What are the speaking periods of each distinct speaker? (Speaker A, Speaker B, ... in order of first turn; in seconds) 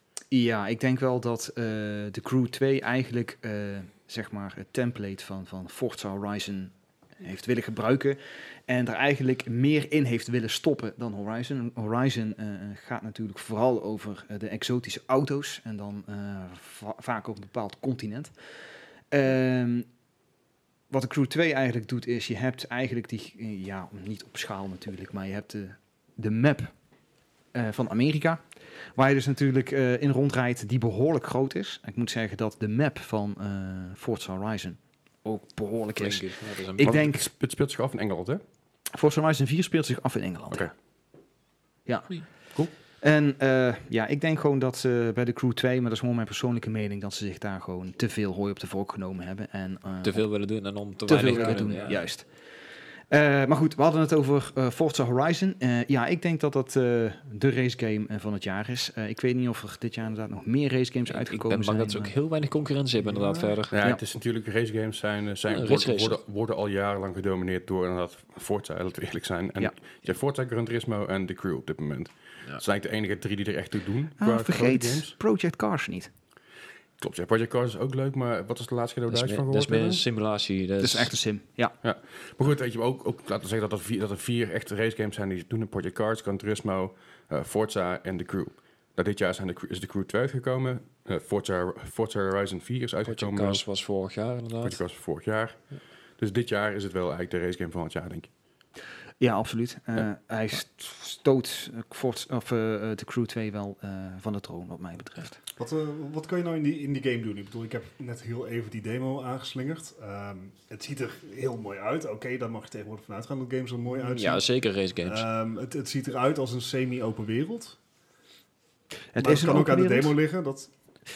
Speaker A: 0.3-18.3, 19.1-19.9, 20.9-26.7, 27.5-28.4, 28.9-37.3, 38.9-40.7, 41.9-42.2, 43.0-50.2, 51.1-52.3, 53.1-62.1, 74.2-76.1, 80.8-81.8, 99.2-105.4, 119.1-120.2
Speaker B: 36.0-36.9, 50.0-52.0, 61.1-63.8, 65.5-66.2, 79.1-81.1, 93.0-94.8, 113.9-115.3
Speaker C: 36.8-38.4, 63.7-75.2, 77.0-80.0, 81.8-93.6, 94.6-95.6, 96.2-98.3
Speaker D: 105.6-114.5, 115.0-117.8, 119.2-120.7